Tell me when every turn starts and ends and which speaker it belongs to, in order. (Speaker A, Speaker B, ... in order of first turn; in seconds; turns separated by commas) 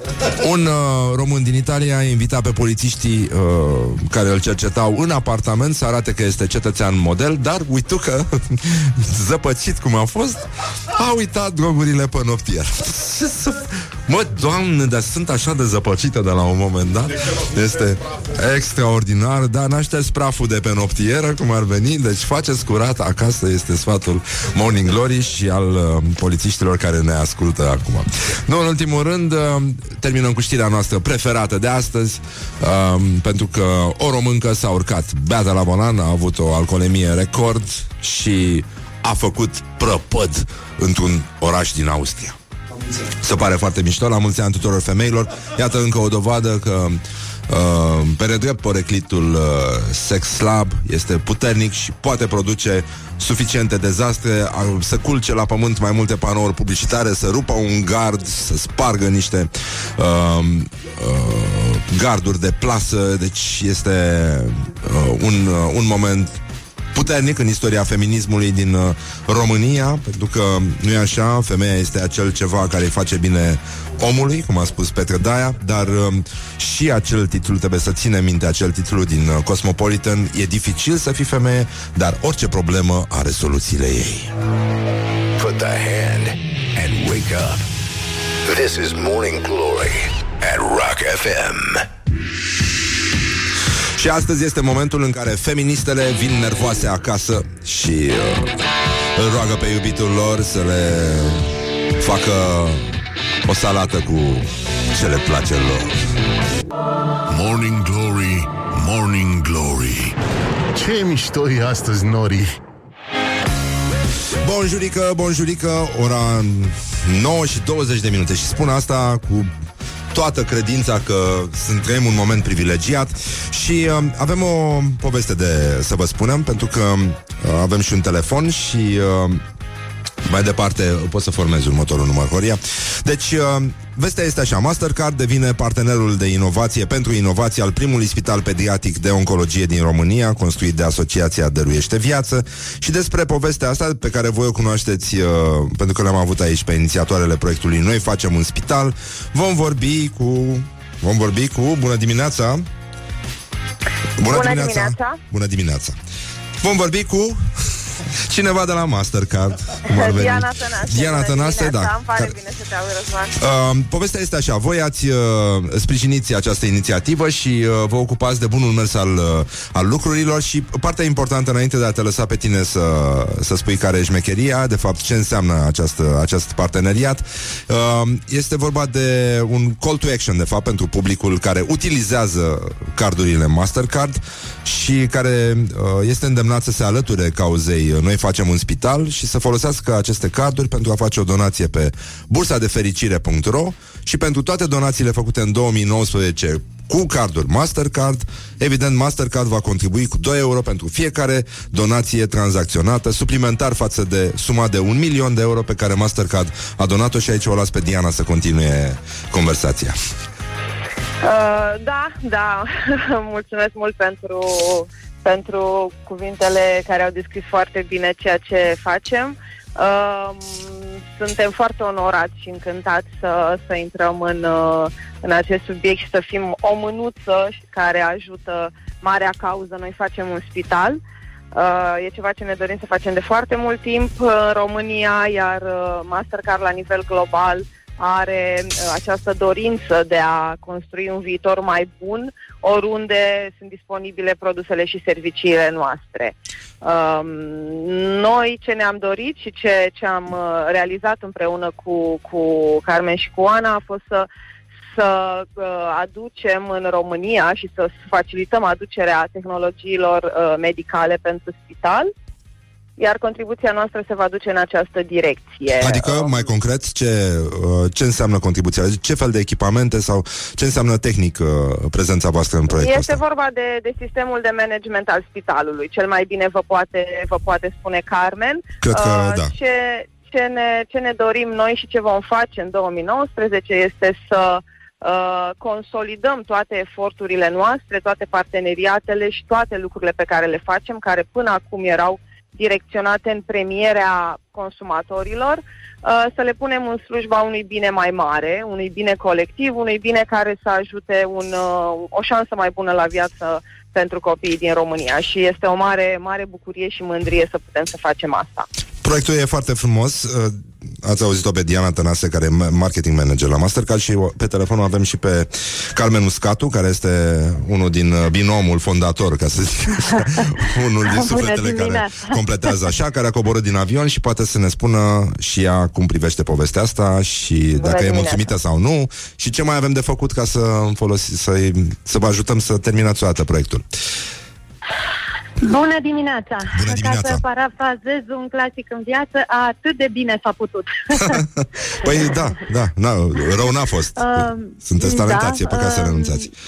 Speaker A: 0.3-42.4, Speaker A: 43.2-66.4, Speaker A: 66.9-84.3, Speaker B: 85.3-87.6, Speaker B: 88.4-91.9, Speaker A: 94.0-98.5, Speaker A: 99.1-101.5, Speaker A: 102.0-102.9, Speaker A: 103.5-106.0, Speaker C: 107.3-110.2, Speaker C: 110.7-112.6, Speaker A: 114.4-119.5, Speaker A: 120.1-129.4, Speaker A: 130.2-152.7, Speaker A: 154.2-156.0, Speaker D: 154.2-155.2, Speaker A: 156.6-157.4, Speaker A: 158.2-162.3, Speaker D: 159.9-163.3, Speaker A: 163.4-210.0, Speaker D: 211.2-231.0, Speaker D: 231.5-254.3, Speaker D: 254.9-262.1, Speaker D: 263.0-266.5, Speaker A: 265.8-273.2, Speaker D: 272.7-308.6, Speaker A: 278.8-279.5, Speaker A: 309.0-333.8, Speaker E: 321.0-322.4, Speaker D: 327.8-328.4, Speaker E: 335.6-341.4, Speaker A: 336.7-337.4, Speaker A: 341.2-346.4, Speaker E: 344.1-346.5